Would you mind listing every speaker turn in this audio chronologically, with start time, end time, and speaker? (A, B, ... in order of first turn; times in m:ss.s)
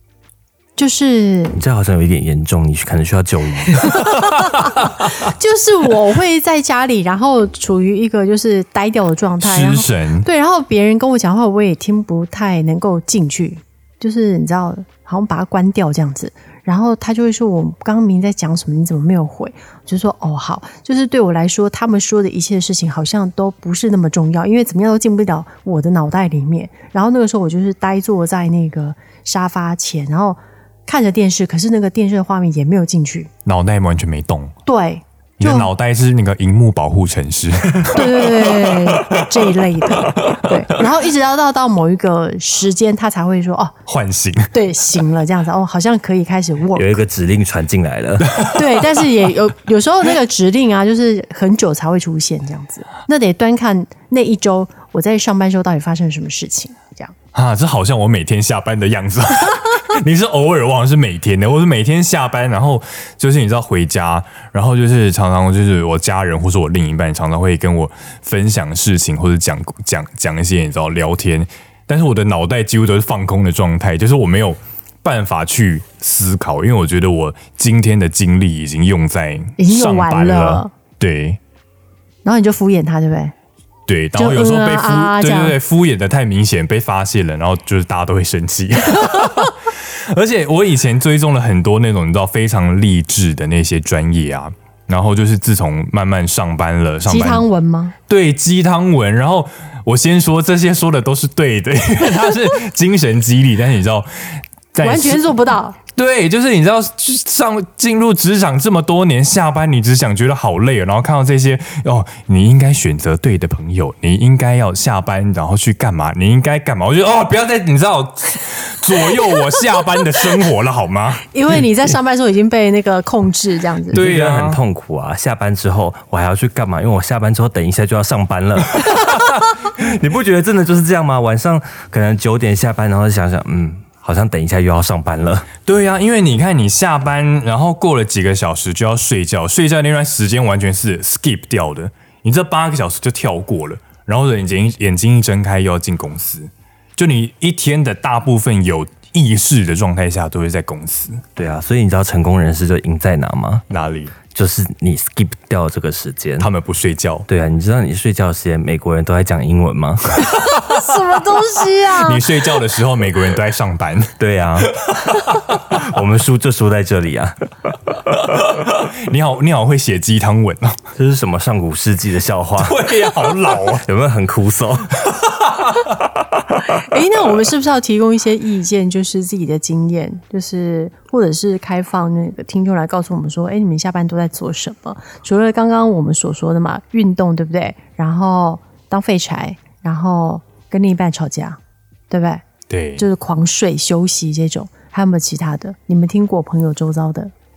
0:00.8-0:01.6 A
0:01.6-0:04.0 B
0:03.8-0:33.3 A
0:09.4-0:10.3 C
0:33.4-0:34.6 C
0:34.7-0:35.7 A
0:35.4-0:40.8 C
0:37.9-0:43.8 A
0:43.9-0:44.5 C
0:44.5-0:47.0 A
0:46.8-0:48.4 B
0:48.2-0:48.8 C
0:48.5-0:57.1 A
0:57.3-1:21.4 C
1:19.6-1:20.7 A
1:22.2-1:23.3 A
1:23.9-1:37.5 C
1:24.2-1:25.6 A
1:37.1-1:37.9 A
1:38.1-1:45.4 C
1:44.8-1:45.8 A
1:46.0-2:01.6 C
2:01.3-2:04.0 A
2:03.9-2:04.6 C
2:03.9-2:15.5 B
2:15.6-2:31.2 C
2:31.4-2:33.6 B
2:33.7-2:34.2 C
2:34.3-2:36.5 B
2:36.4-2:37.3 C
2:37.3-2:40.3 B
2:40.2-2:42.3 A
2:42.0-2:44.1 C
2:44.2-2:48.0 B
2:44.7-2:45.6 C
2:48.3-2:50.8 C
2:51.0-2:55.0 B
2:52.6-2:53.9 C
2:55.1-2:55.9 C
2:56.7-3:11.6 A
3:12.1-3:12.4 A
3:12.7-3:13.0 C
3:13.0-3:17.3 A